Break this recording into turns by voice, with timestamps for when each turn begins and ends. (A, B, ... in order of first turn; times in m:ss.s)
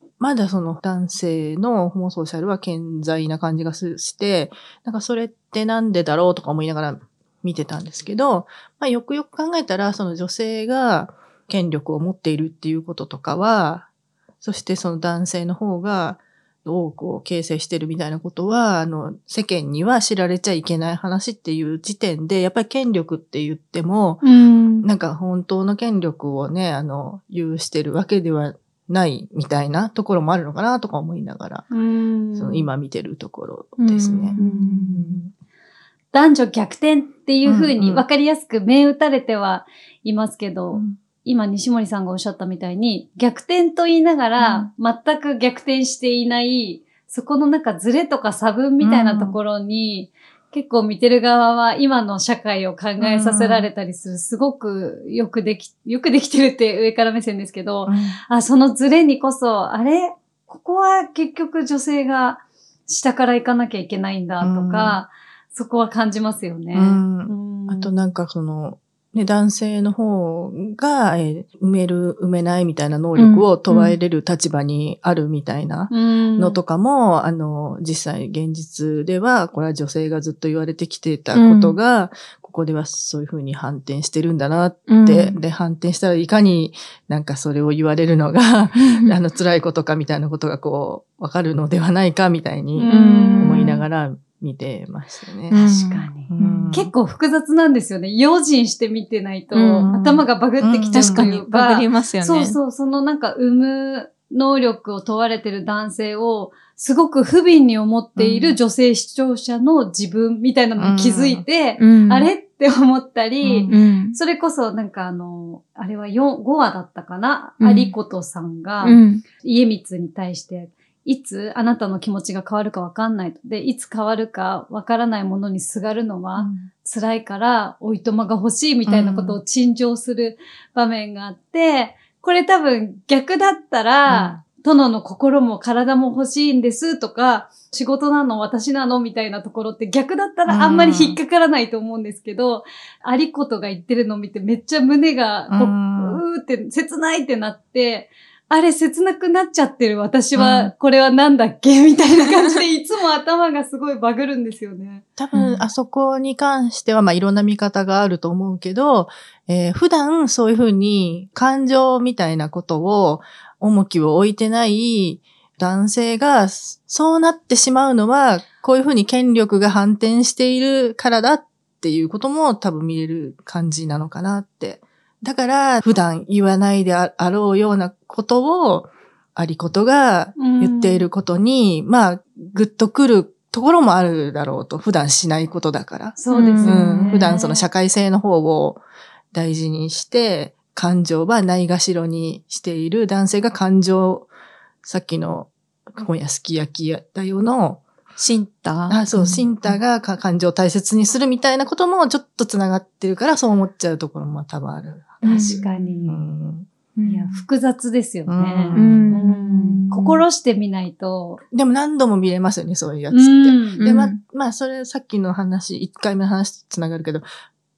0:00.2-0:13.9 A
0:14.4-0:24.2 A
0:24.2-0:24.8 B
0:24.8-0:31.7 A
0:31.7-0:32.7 B
0:32.3-0:34.4 A
0:33.8-0:35.2 C
0:34.4-0:34.9 B
0:34.9-0:35.3 A
0:36.1-1:07.9 B
0:37.4-0:38.0 A
0:48.8-0:49.4 A
0:53.0-0:53.7 A
0:57.9-0:58.2 A
1:04.4-1:05.0 A
1:06.7-1:35.7 A
1:13.2-1:13.9 C
1:15.9-1:16.6 B
1:21.3-1:21.8 C
1:24.9-1:25.4 C
1:28.8-1:29.2 C
1:32.8-1:33.7 B
1:32.9-1:33.8 C
1:35.5-1:36.7 C
1:35.5-2:35.0 B
1:36.3-1:36.9 A
1:39.5-1:39.9 C
1:39.8-1:41.3 A
1:40.9-1:42.6 C
1:48.2-1:48.6 A
1:50.8-1:51.4 A
1:51.8-1:52.3 C
1:53.4-1:54.2 C
1:57.6-1:57.9 C
1:58.8-1:59.2 C
2:06.4-2:06.7 A
2:08.9-2:09.4 A
2:14.1-2:14.4 A
2:20.5-2:21.2 A
2:25.5-2:26.2 A
2:30.4-2:30.7 A
2:35.2-3:08.8 A
2:35.3-2:35.7 C
3:00.4-3:01.0 B
3:06.2-3:07.7 B
3:06.3-3:06.9 C
3:09.3-3:14.3 A
3:14.8-3:17.8 A
3:18.2-3:19.8 C
3:18.9-3:26.7 A
3:25.2-3:26.2 B
3:25.2-3:25.6 C
3:26.9-3:27.4 C
3:27.0-3:31.4 B
3:28.3-3:29.2 A
3:28.7-3:30.2 C
3:31.5-3:37.2 A
3:33.1-3:33.8 B
3:33.8-3:34.2 C